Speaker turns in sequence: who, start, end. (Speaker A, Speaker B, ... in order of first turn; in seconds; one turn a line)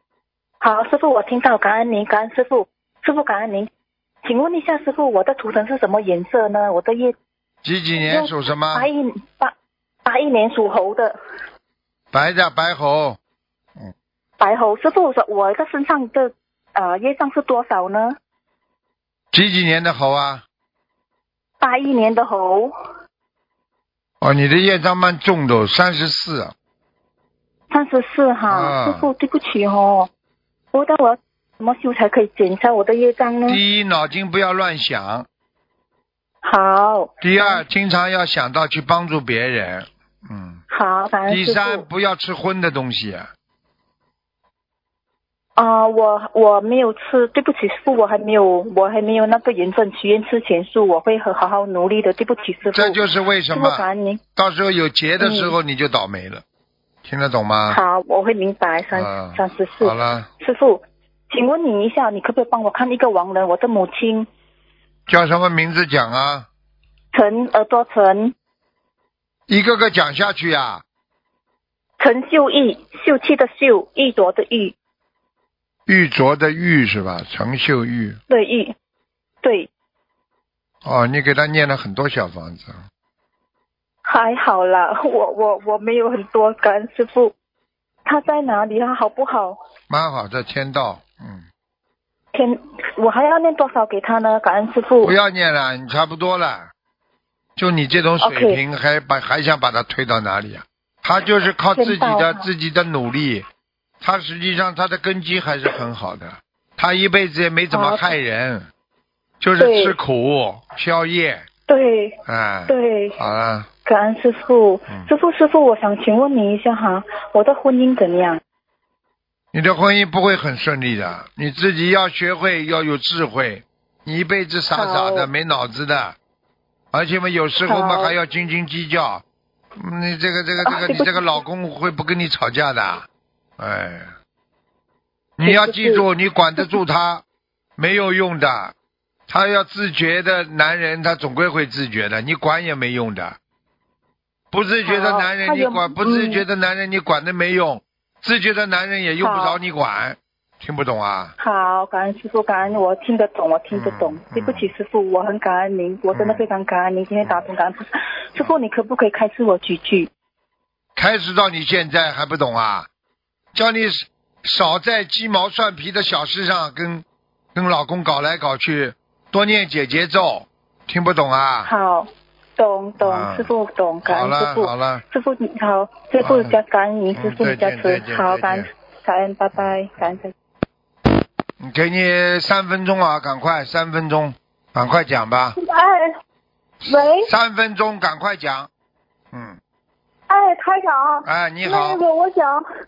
Speaker A: 0.6-3.7
Speaker A: 4.2-7.1
Speaker B: 7.6-8.9
Speaker A: 8.0-9.5
Speaker A: 10.1-11.2
Speaker B: 12.1-13.2
Speaker A: 14.4-18.2
Speaker B: 19.3-20.4
Speaker A: 21.6-22.7
Speaker B: 24.2-26.5
Speaker A: 27.7-30.1
Speaker B: 28.5-29.1
Speaker A: 30.7-33.6
Speaker B: 33.5-35.3
Speaker A: 36.4-37.6
Speaker B: 37.2-40.6
Speaker A: 40.7-41.9
Speaker B: 41.3-43.3
Speaker A: 45.6-54.2
Speaker B: 52.7-53.9
Speaker B: 54.4-56.4
Speaker A: 55.2-55.5
Speaker B: 57.0-57.8
Speaker A: 57.7-64.3
Speaker B: 58.9-60.3
Speaker B: 65.1-66.5
Speaker A: 67.1-68.3
Speaker B: 69.5-70.8
Speaker A: 72.0-74.7
Speaker B: 75.9-78.2
Speaker A: 78.3-78.7
Speaker A: 79.4-79.7
Speaker B: 80.8-82.8
Speaker A: 84.0-87.3
Speaker A: 88.0-89.6
Speaker B: 89.9-91.4
Speaker A: 92.3-95.1
Speaker B: 95.0-96.7
Speaker B: 97.6-103.5
Speaker A: 98.2-98.6
Speaker A: 101.8-102.5
Speaker B: 104.0-108.7
Speaker A: 107.7-108.2
Speaker B: 109.4-111.5
Speaker A: 109.6-110.0
Speaker A: 111.7-112.2
Speaker B: 112.2-113.7
Speaker A: 112.7-113.2
Speaker A: 113.8-118.4
Speaker B: 119.5-126.2
Speaker A: 124.7-125.3
Speaker B: 126.9-129.2
Speaker A: 127.7-128.2
Speaker B: 129.8-133.1
Speaker A: 130.6-131.4
Speaker B: 133.6-134.1
Speaker B: 135.4-137.2
Speaker A: 135.4-136.1
Speaker B: 137.8-138.7
Speaker B: 139.3-143.4
Speaker B: 144.5-151.3
Speaker A: 144.8-146.4
Speaker A: 149.2-149.6
Speaker A: 151.4-160.1
Speaker B: 153.7-154.7
Speaker B: 156.1-156.5
Speaker B: 161.0-162.9
Speaker B: 163.5-171.7
Speaker A: 171.6-180.3
Speaker B: 173.0-173.5
Speaker B: 174.0-175.0
Speaker B: 176.2-176.6
Speaker B: 177.1-178.7
Speaker B: 181.6-185.6
Speaker C: 185.6-186.1
Speaker B: 186.9-188.7
Speaker C: 186.9-187.2
Speaker B: 189.3-189.6
Speaker C: 190.3-192.6
Speaker B: 191.2-192.0